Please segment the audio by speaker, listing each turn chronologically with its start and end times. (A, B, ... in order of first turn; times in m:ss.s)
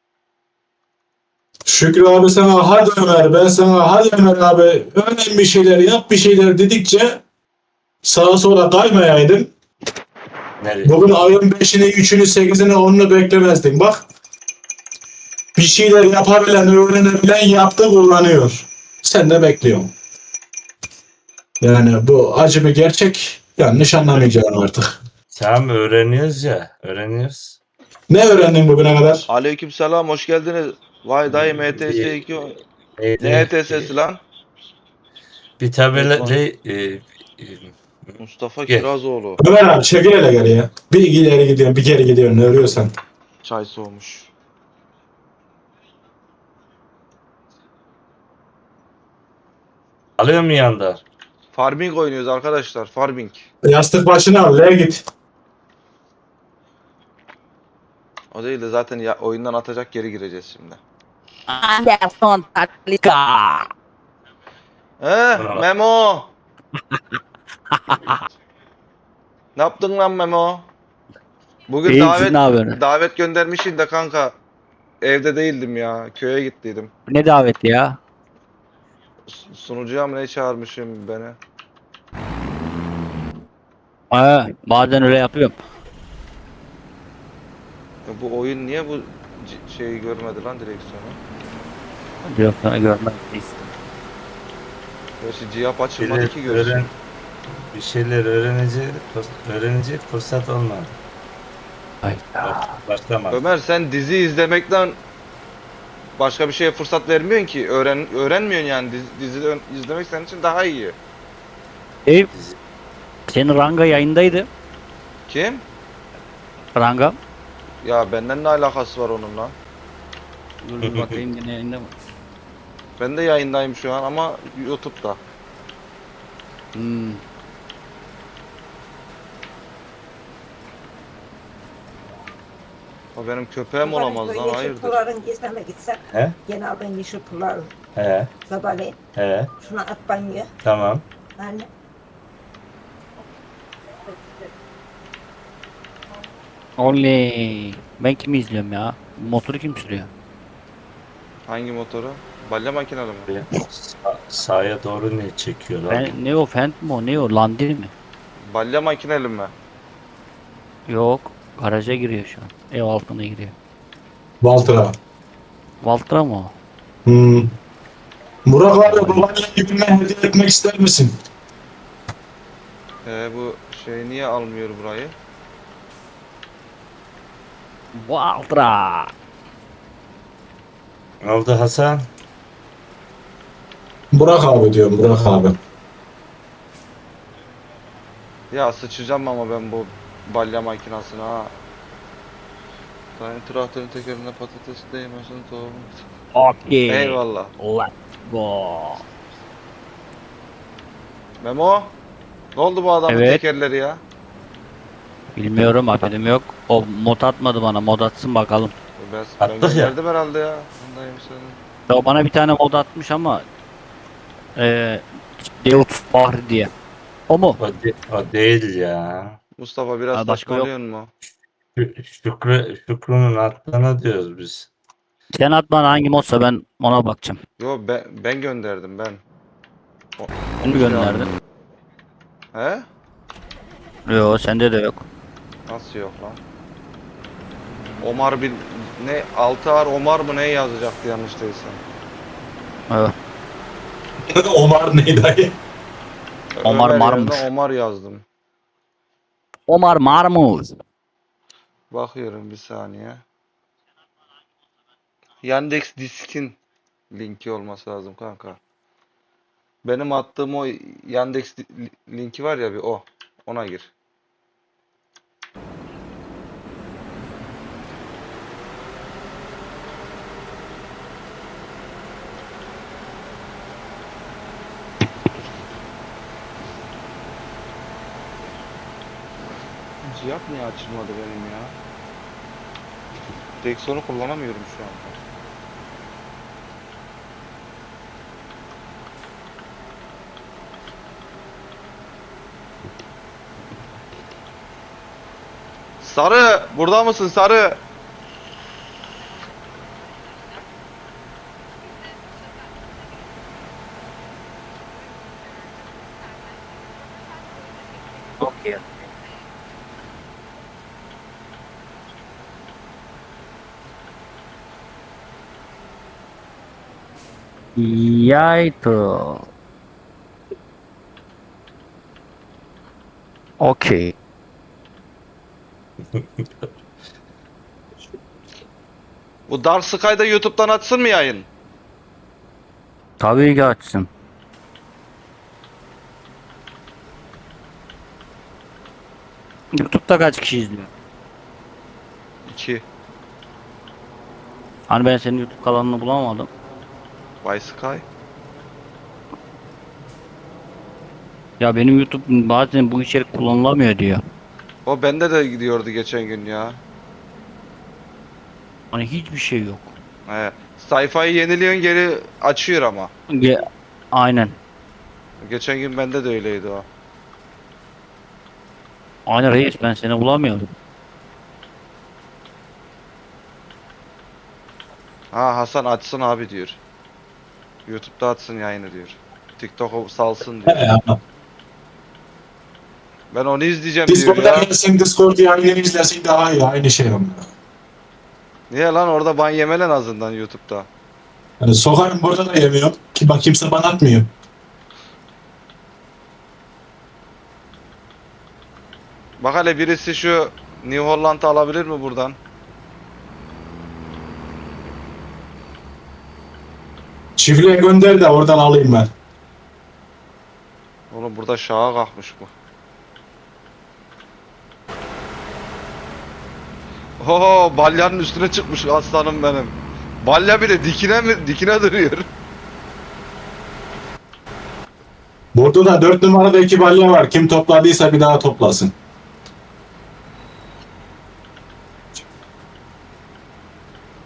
0:01.6-0:07.2 A
0:08.0-0:09.5 A
0:10.6-0:11.0 B
0:10.8-0:14.0 A
0:15.6-0:19.9 A
0:21.6-0:25.0 A
0:25.3-0:27.6 B
0:28.1-0:29.2 A
0:29.3-0:32.6 C
0:31.3-0:32.2 B
0:33.0-0:33.9 B
0:33.2-0:34.2 C
0:35.6-0:38.2 B
0:35.9-0:36.4 C
0:38.2-0:39.4 C
0:39.4-0:42.9 A
0:43.4-0:44.3 C
0:50.2-0:51.0 B
0:51.5-0:53.5 C
0:53.6-0:55.0 A
0:58.3-1:00.8 C
1:01.5-1:03.7 D
1:05.0-1:06.3 C
1:05.3-1:05.6 B
1:07.7-1:08.2 D
1:09.6-1:10.7 C
1:11.7-1:14.3 C
1:11.8-1:12.8 D
1:15.0-1:16.9 C
1:17.1-1:18.0 D
1:19.3-1:21.4 C
1:24.1-1:25.6 D
1:28.0-1:31.2 C
1:32.2-1:33.7 D
1:35.2-1:36.8 C
1:36.0-1:36.9 B
1:37.6-1:40.9 B
1:42.0-1:42.7 D
1:42.4-1:43.4 B
1:43.3-1:45.0 C
1:46.2-1:51.0 C
1:52.3-1:52.6 B
1:53.3-1:54.5 D
1:55.3-1:55.6 C
1:56.7-1:57.2 D
1:57.8-1:59.6 C
2:00.6-2:01.9 D
2:00.8-2:01.2 B
2:03.0-2:05.2 C
2:06.7-2:07.2 D
2:13.2-2:15.0 C
2:13.8-2:17.7 E
2:16.1-2:16.4 B
2:18.0-2:18.3 B
2:18.5-2:19.0 E
2:19.2-2:19.5 B
2:19.6-2:20.5 E
2:20.6-2:21.0 B
2:21.4-2:21.7 E
2:26.8-2:30.1 D
2:31.5-2:33.3 C
2:33.3-2:36.2 B
2:35.9-2:37.9 D
2:38.4-2:39.5 C
2:40.9-2:43.5 D
2:44.4-2:44.9 A
2:45.8-2:46.5 D
2:47.0-2:47.5 A
2:48.4-2:51.1 A
2:48.9-2:49.2 D
2:53.0-2:55.1 C
2:57.9-2:59.1 D
3:01.2-3:02.1 B
3:04.1-3:05.6 A
3:08.5-3:11.5 C
3:13.2-3:16.0 C
3:16.3-3:19.0 D
3:16.9-3:17.5 C
3:21.4-3:22.0 C
3:22.6-3:24.0 C
3:23.1-3:23.4 D
3:25.3-3:28.7 D
3:29.0-3:31.6 C
3:29.4-3:29.9 B
3:31.9-3:33.4 D
3:34.6-3:36.7 D
3:37.3-3:37.6 D
3:37.6-3:39.4 B
3:39.6-3:41.1 C
3:40.1-3:40.7 D
3:41.8-3:44.7 B
3:45.3-3:47.4 D
3:47.6-3:49.2 C
3:50.2-3:51.2 C
3:50.6-3:51.3 D
3:52.5-3:52.8 C
3:54.1-3:55.0 D
3:55.7-3:56.4 C
3:58.0-4:01.8 C
4:02.9-4:03.1 D
4:04.3-4:05.6 A
4:06.6-4:08.2 C
4:06.6-4:07.4 D
4:09.7-4:10.8 D
4:11.9-4:13.2 C
4:15.4-4:16.6 C
4:17.1-4:18.6 C
4:19.8-4:23.9 C
4:40.0-4:41.8 C
4:43.6-4:45.2 C
4:56.0-4:57.8 C
5:08.4-5:08.8 D
5:17.8-5:19.5 D
5:23.6-5:24.1 D
5:26.1-5:26.7 B
5:29.5-5:31.5 C
5:33.2-5:34.1 D
5:39.7-5:40.9 D
5:42.4-5:42.8 C
5:44.9-5:46.5 D
5:47.4-5:48.0 C
5:51.6-5:54.2 D
5:54.8-5:56.8 C
5:58.9-5:59.9 D
6:00.3-6:03.1 C
6:03.3-6:03.6 D
6:04.1-6:04.6 D
6:05.4-6:06.8 C
6:09.3-6:10.7 D
6:15.3-6:16.8 C
6:17.9-6:20.9 C
6:20.6-6:21.2 A
6:23.3-6:24.7 C
6:24.1-6:27.5 A
6:28.7-6:30.9 C
6:31.6-6:34.3 A
6:39.4-6:42.4 C
6:47.4-6:49.1 A
6:51.1-6:52.5 C
6:57.2-7:02.3 C
7:05.5-7:08.9 A